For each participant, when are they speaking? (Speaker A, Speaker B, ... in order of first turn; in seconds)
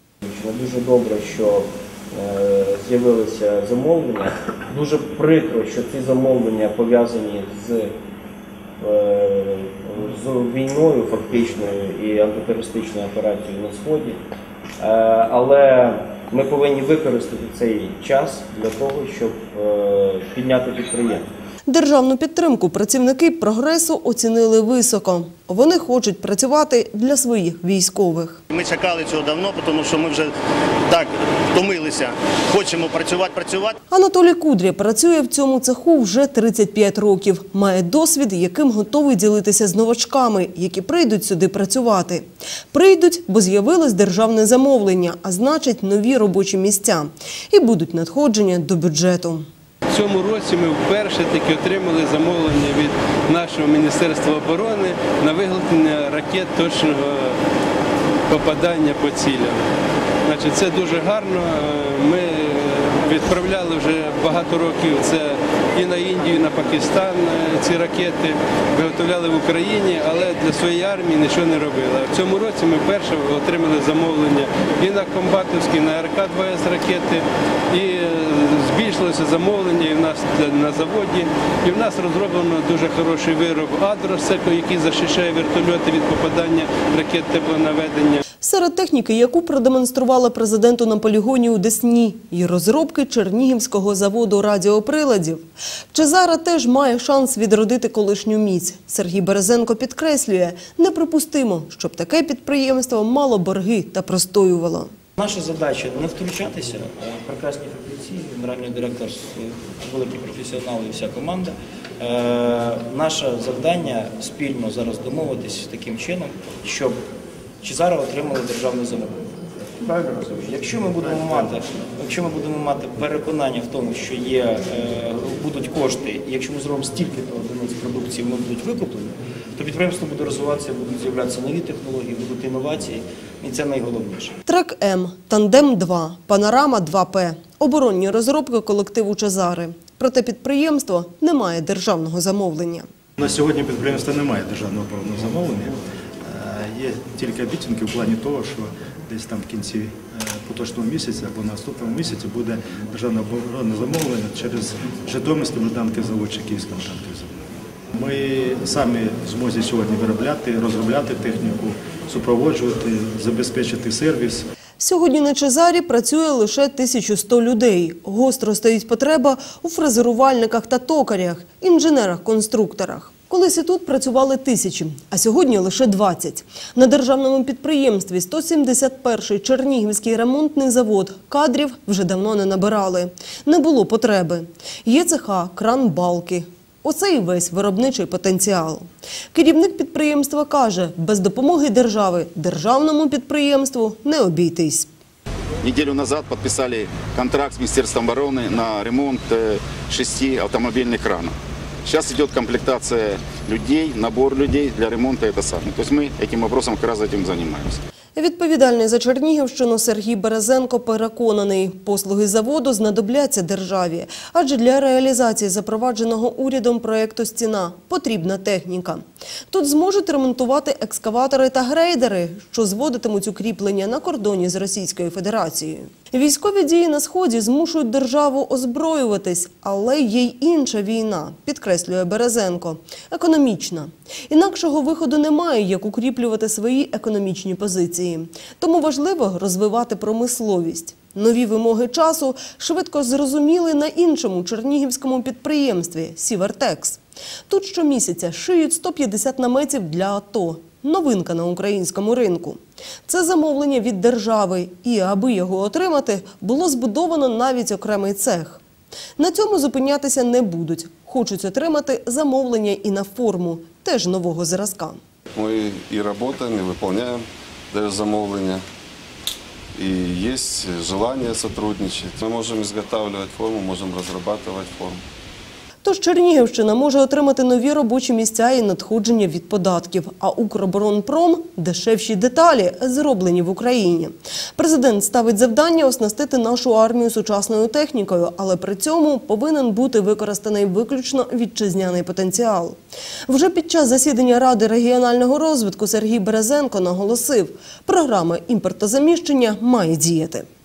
Speaker A: 0.2-7.9, 8.8-14.2, 14.8-21.3, 105.2-117.0, 117.6-119.3, 119.8-134.3
Speaker B: 21.7-28.4, 33.9-49.5, 88.4-104.9, 134.4-142.9, 164.8-194.9, 208.1-258.6, 259.2-265.0, 275.8-292.8, 293.3-300.4
Speaker C: 28.7-30.2, 31.6-32.0, 32.6-33.7
Speaker D: 49.9-57.4, 58.3-59.6, 60.2-88.2
Speaker E: 143.2-157.3, 157.9-164.4
Speaker F: 195.6-201.3, 201.8-207.8, 265.7-267.2, 268.1-268.6, 269.8-275.0
Speaker G: 265.3-268.6, 269.7-275.0